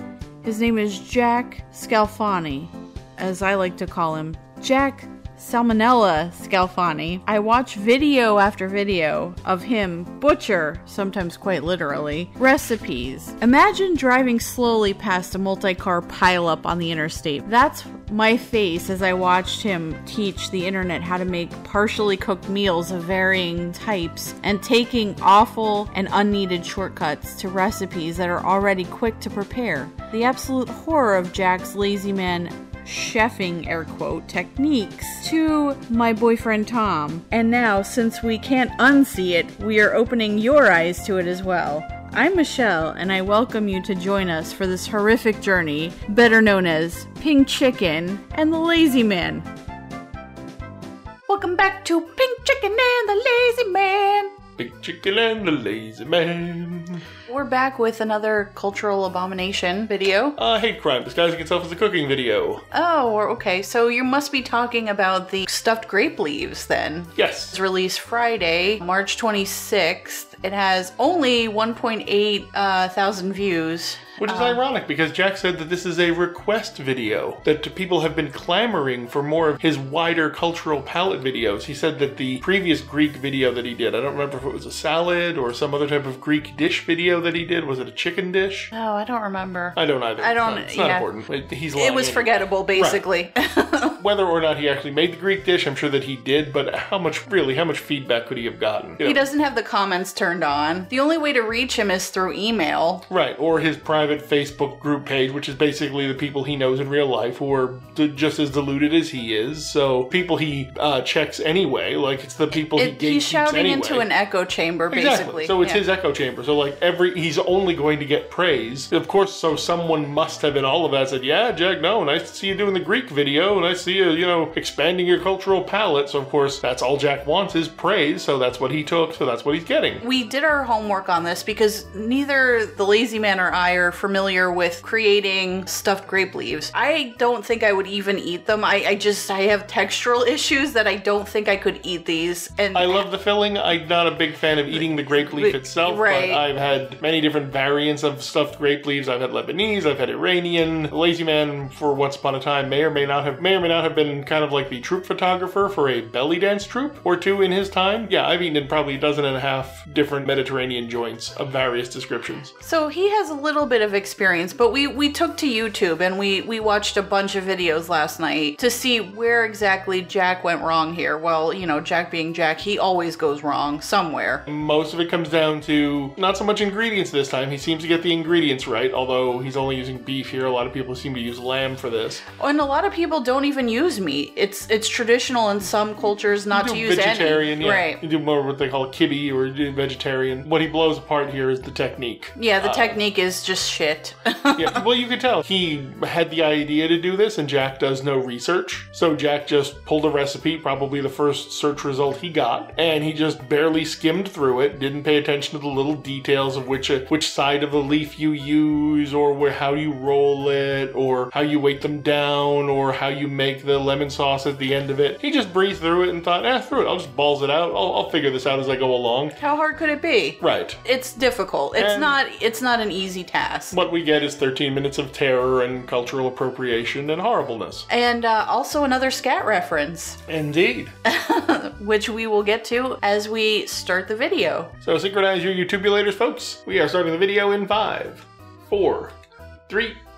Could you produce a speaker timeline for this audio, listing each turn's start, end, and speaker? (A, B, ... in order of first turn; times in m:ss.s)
0:00.4-0:49.5 A
0:51.3-0:54.3 A
0:54.6-0:57.0 B
0:57.3-1:00.4 A
1:00.4-1:02.6 B
1:02.7-1:14.6 A
1:07.2-1:07.6 B
1:14.2-1:28.7 B
1:28.7-1:31.1 A
1:29.8-1:33.0 B
1:31.7-1:34.0 A
1:34.0-1:39.2 B
1:39.0-1:43.0 A
1:43.1-1:54.1 B
1:52.7-1:55.8 A
1:54.9-2:10.0 B
2:10.0-2:23.0 A
2:22.7-2:42.5 B
2:24.7-2:26.4 A
2:42.6-2:54.4 A
2:54.5-3:02.2 B
3:02.4-3:08.0 A
3:06.5-3:13.0 B
3:12.4-3:14.8 A
3:14.6-3:39.4 B
3:39.4-3:43.8 A
3:40.4-3:40.8 B
3:41.8-3:42.2 B
3:43.7-3:47.9 B
3:47.9-3:50.2 A
3:50.3-3:50.9 B
3:51.1-3:54.7 A
3:54.8-3:59.1 B
3:59.7-4:00.0 B